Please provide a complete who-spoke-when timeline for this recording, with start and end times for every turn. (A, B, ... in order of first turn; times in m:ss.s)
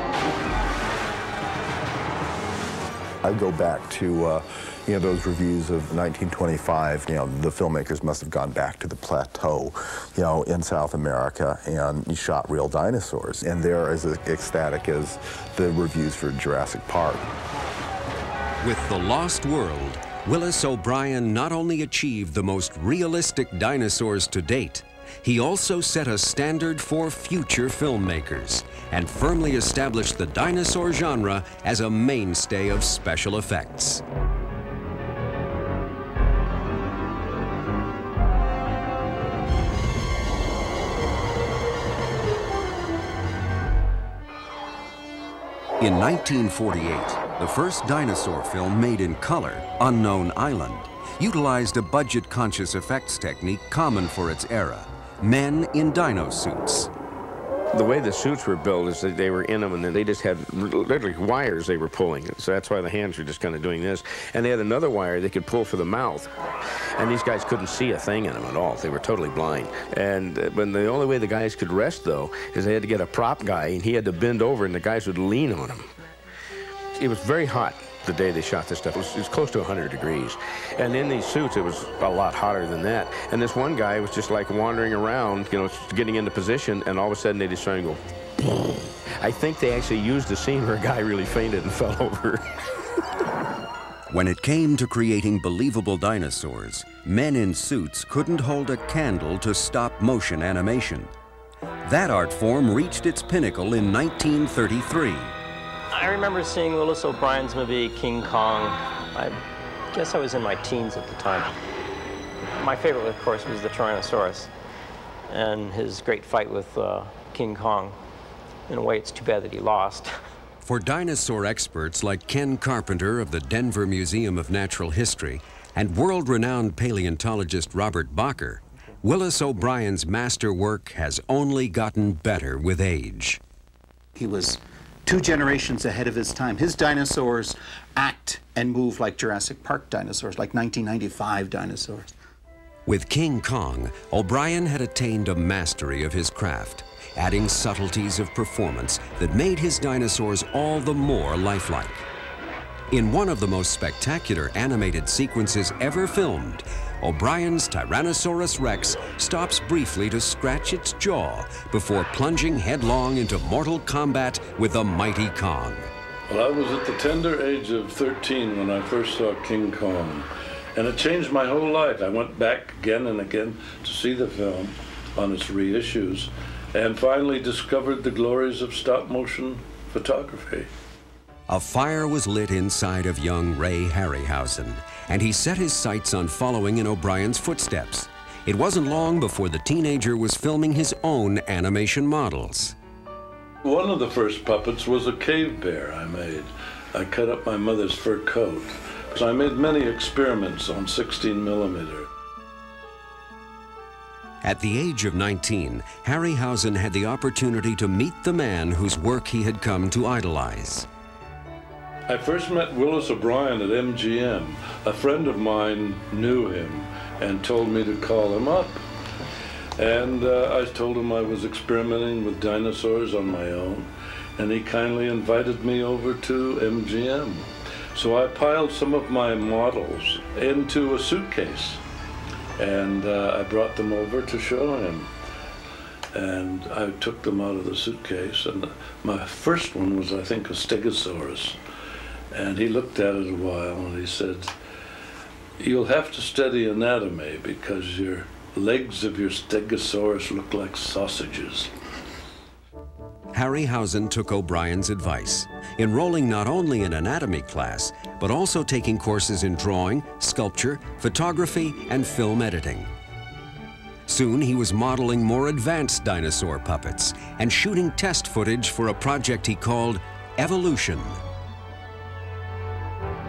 0:03.2-0:17.3 A
0:18.6-0:34.0 B
0:45.8-0:56.9 B
0:57.7-1:06.3 C
1:07.0-1:15.9 C
1:17.0-1:32.5 C
1:34.1-1:41.1 B
1:41.8-1:45.4 B
1:45.9-1:49.4 D
1:49.9-1:51.6 D
1:52.6-1:54.5 D
1:55.3-1:58.0 D
1:58.7-2:00.1 D
2:00.6-2:13.4 B
2:14.2-2:22.1 E
2:22.9-2:32.1 B
2:32.9-2:45.9 B
2:46.3-3:00.7 F
3:01.5-3:12.8 B
3:13.6-3:22.1 F
3:24.4-3:30.9 B
3:32.1-3:38.8 F
3:39.8-3:51.8 F
3:52.6-3:55.1 F
3:56.1-4:01.6 F
4:02.3-4:04.5 F
4:05.6-4:11.7 F
4:13.3-4:22.9 B
4:24.1-4:31.2 B